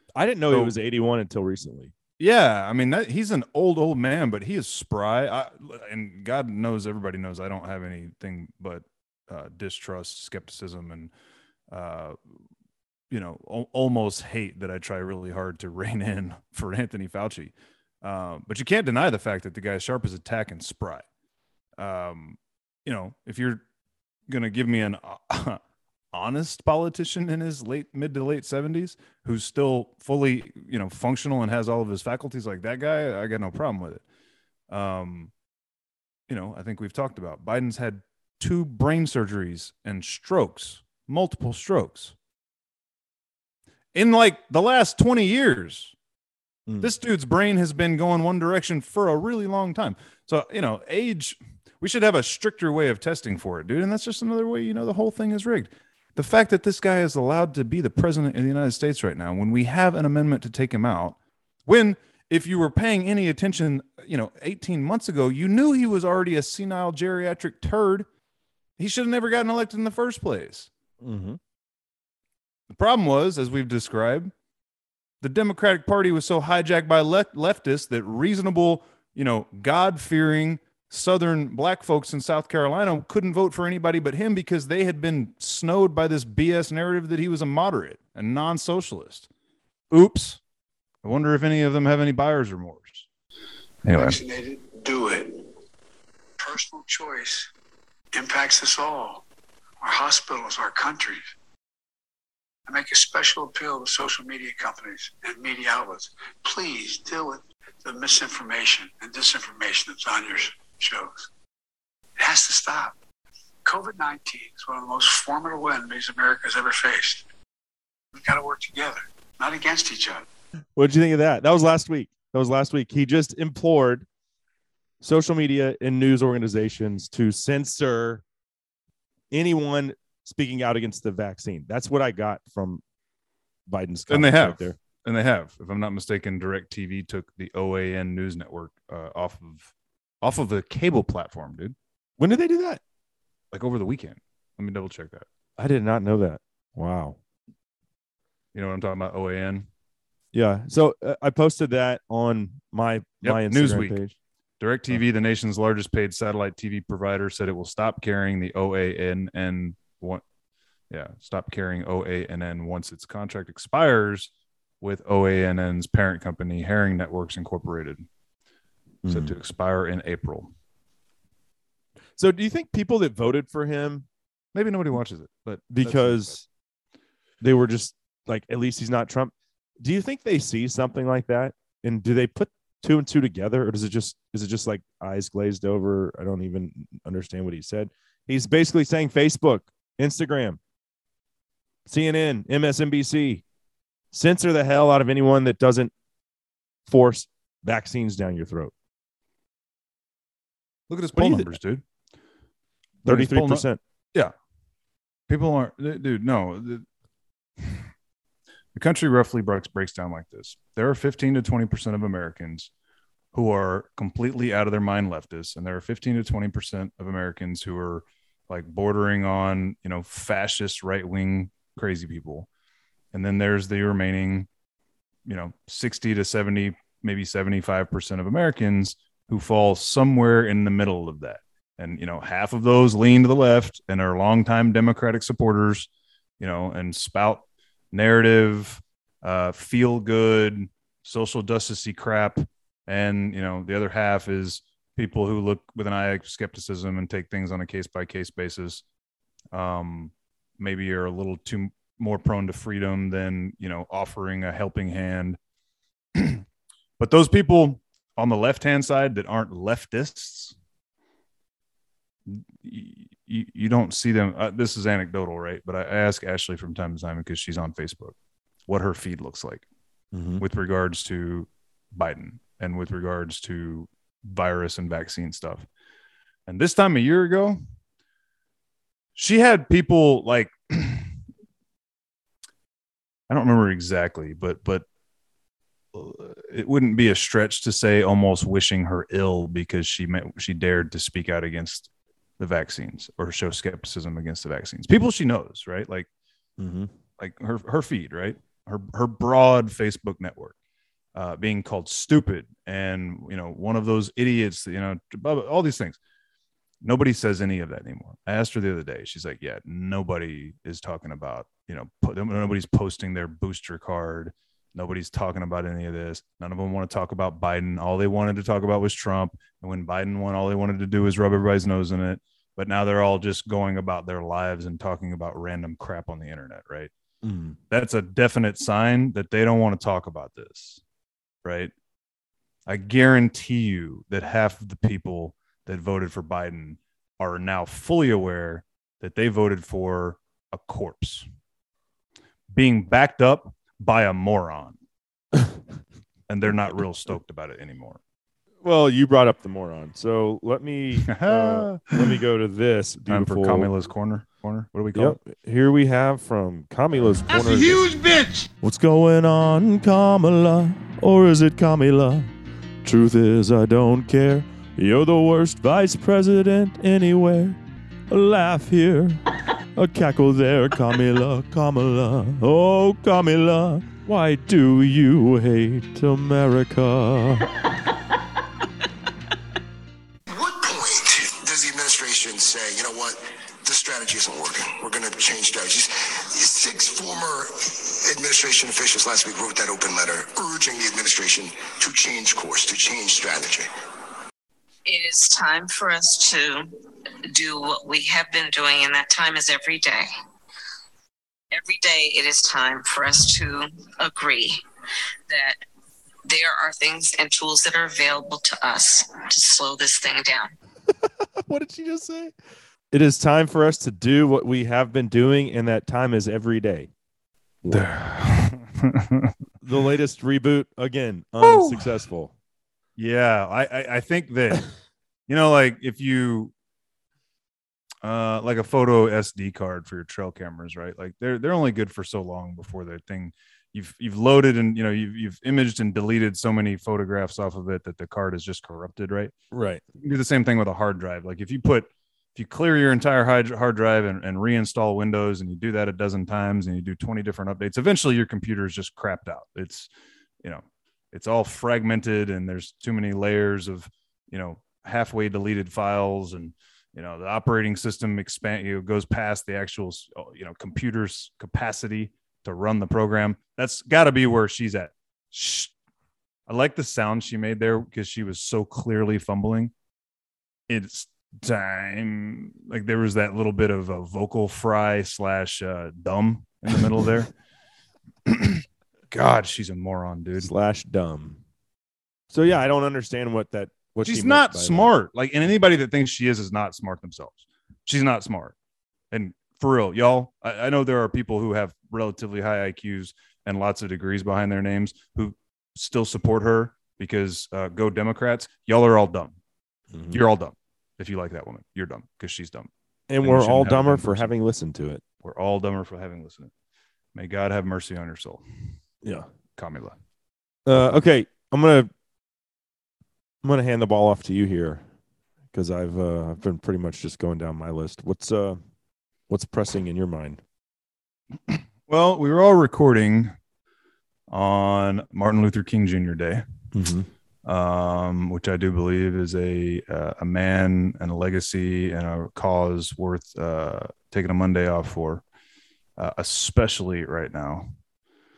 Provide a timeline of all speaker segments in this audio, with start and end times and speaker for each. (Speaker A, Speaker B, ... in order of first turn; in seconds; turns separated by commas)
Speaker A: 0.1-1.9, Speaker B: 0.5-0.7, Speaker B: 2.2-11.1, Speaker B: 11.7-12.2, Speaker B: 13.1-21.1, Speaker B: 21.8-23.6, Speaker B: 24.3-25.6, Speaker B: 26.1-34.0, Speaker B: 34.7-35.3, Speaker B: 36.3-42.1, Speaker B: 43.9-45.9, Speaker A: 46.7-46.9, Speaker B: 46.8-68.1, Speaker B: 68.8-70.7, Speaker A: 71.0-71.4, Speaker B: 72.7-74.3, Speaker B: 75.2-89.3, Speaker B: 89.9-90.4, Speaker B: 91.0-93.1, Speaker B: 93.8-94.2, Speaker C: 93.9-95.5, Speaker C: 96.4-97.5, Speaker C: 98.1-99.2, Speaker C: 99.8-101.2, Speaker C: 102.7-111.2, Speaker C: 112.2-113.0, Speaker C: 113.6-117.2, Speaker C: 118.1-120.2, Speaker A: 120.8-124.0, Speaker A: 125.0-128.2, Speaker A: 129.3-132.8, Speaker A: 133.7-134.8, Speaker B: 134.1-141.7, Speaker A: 142.2-142.8, Speaker B: 143.5-145.2, Speaker A: 145.6-147.2, Speaker B: 148.5-149.7, Speaker A: 150.3-154.1, Speaker B: 153.2-154.0, Speaker B: 154.6-160.2, Speaker B: 160.9-168.1, Speaker A: 169.0-169.3, Speaker B: 169.1-170.5, Speaker A: 172.2-174.1, Speaker B: 174.5-176.3, Speaker A: 175.7-176.5, Speaker A: 177.4-190.6, Speaker A: 191.8-193.4, Speaker A: 194.1-195.9, Speaker A: 196.9-198.7, Speaker B: 200.9-201.8, Speaker A: 201.2-201.5, Speaker A: 203.0-203.8, Speaker B: 203.0-204.3, Speaker B: 205.3-206.8, Speaker B: 207.6-207.9, Speaker B: 208.7-212.7, Speaker B: 213.3-222.5, Speaker B: 223.1-224.5, Speaker B: 225.2-235.9, Speaker B: 236.4-248.8, Speaker B: 249.5-255.4, Speaker B: 256.1-256.4, Speaker B: 257.0-260.6, Speaker B: 262.3-268.1, Speaker B: 268.7-269.6, Speaker A: 270.1-270.4, Speaker B: 270.4-275.6, Speaker B: 276.5-277.6, Speaker B: 279.1-281.2, Speaker B: 283.3-284.8, Speaker B: 285.9-296.1, Speaker A: 296.6-296.9, Speaker B: 297.2-300.5, Speaker B: 301.1-306.0, Speaker B: 306.8-326.9, Speaker A: 327.2-327.6, Speaker B: 327.7-330.8, Speaker B: 331.4-331.7, Speaker B: 332.6-341.2, Speaker B: 342.5-344.8, Speaker B: 346.3-348.0, Speaker A: 348.6-353.7, Speaker B: 351.1-352.2, Speaker B: 353.1-355.2, Speaker A: 354.9-357.9, Speaker B: 357.5-358.2, Speaker A: 358.6-362.3, Speaker A: 362.8-369.2, Speaker A: 369.7-377.5, Speaker D: 380.3-393.7, Speaker E: 394.9-396.7, Speaker E: 397.3-400.1, Speaker E: 401.5-404.6, Speaker E: 405.3-405.6, Speaker E: 406.2-410.5, Speaker A: 411.4-412.3, Speaker A: 412.9-416.9, Speaker B: 417.7-419.3, Speaker A: 419.6-422.3, Speaker B: 421.4-421.9, Speaker B: 423.0-424.6, Speaker B: 425.3-426.5, Speaker B: 428.0-439.3, Speaker A: 439.5-439.8, Speaker B: 439.9-449.9, Speaker B: 450.4-465.7, Speaker B: 466.5-469.7, Speaker B: 470.7-477.3, Speaker B: 478.2-480.5, Speaker A: 480.4-481.4, Speaker A: 482.3-484.9, Speaker B: 484.0-488.5, Speaker B: 489.1-499.4, Speaker A: 499.9-500.2, Speaker B: 500.1-502.7, Speaker A: 503.1-505.0, Speaker B: 503.2-504.3, Speaker B: 505.2-506.5, Speaker B: 507.1-508.6, Speaker A: 509.0-509.3, Speaker B: 509.6-510.0, Speaker A: 510.6-511.9, Speaker B: 510.7-511.0, Speaker A: 513.4-514.8, Speaker A: 515.5-518.6, Speaker A: 519.3-520.4, Speaker B: 521.5-523.3, Speaker B: 524.3-526.4, Speaker A: 526.7-527.1, Speaker B: 527.4-535.2, Speaker B: 536.0-537.7